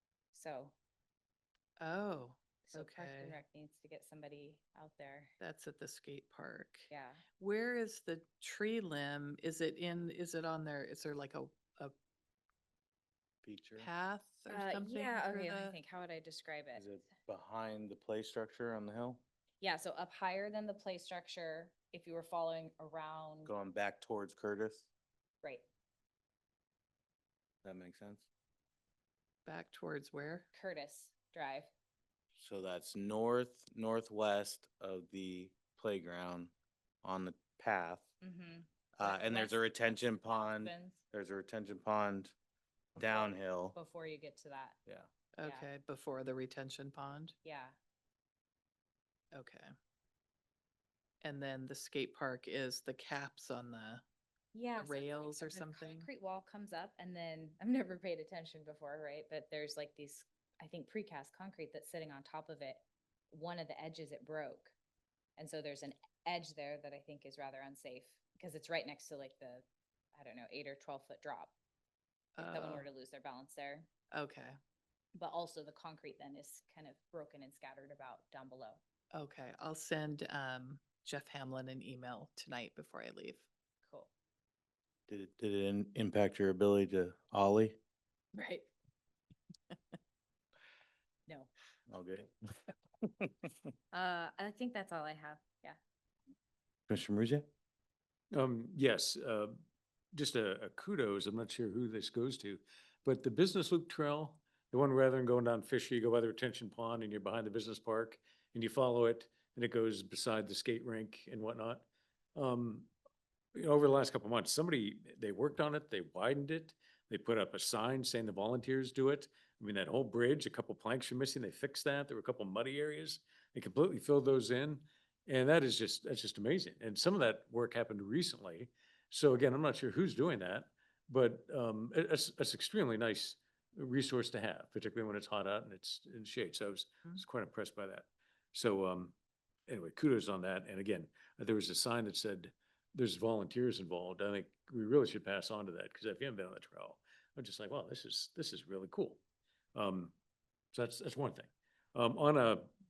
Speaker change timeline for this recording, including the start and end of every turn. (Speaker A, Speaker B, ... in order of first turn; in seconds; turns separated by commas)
Speaker A: 0.3-0.7, Speaker B: 1.8-3.4, Speaker A: 2.6-5.3, Speaker B: 5.4-11.9, Speaker A: 6.9-7.2, Speaker C: 13.4-13.9, Speaker B: 13.8-15.8, Speaker A: 14.5-16.9, Speaker C: 16.8-19.2, Speaker A: 19.6-23.5, Speaker C: 23.5-24.9, Speaker C: 27.6-28.2, Speaker B: 29.4-30.5, Speaker A: 30.5-31.7, Speaker C: 32.4-36.5, Speaker C: 37.0-38.1, Speaker A: 38.2-39.6, Speaker C: 39.0-42.3, Speaker A: 40.3-41.0, Speaker C: 43.0-43.8, Speaker A: 43.0-44.8, Speaker B: 45.4-47.4, Speaker A: 45.4-45.7, Speaker A: 47.4-47.8, Speaker B: 49.3-49.7, Speaker B: 51.2-54.0, Speaker A: 54.5-64.7, Speaker B: 54.8-56.1, Speaker A: 65.4-71.5, Speaker B: 72.4-72.9, Speaker A: 72.4-73.9, Speaker B: 74.1-74.6, Speaker A: 75.2-78.8, Speaker B: 79.1-83.5, Speaker A: 83.8-84.1, Speaker C: 85.1-87.8, Speaker A: 88.3-88.7, Speaker C: 91.9-92.5, Speaker C: 93.0-93.5, Speaker A: 93.9-95.8, Speaker C: 96.9-97.5, Speaker D: 98.3-99.6, Speaker D: 100.1-112.9, Speaker D: 113.5-139.1, Speaker D: 139.7-149.2, Speaker D: 149.7-150.1, Speaker D: 150.7-152.7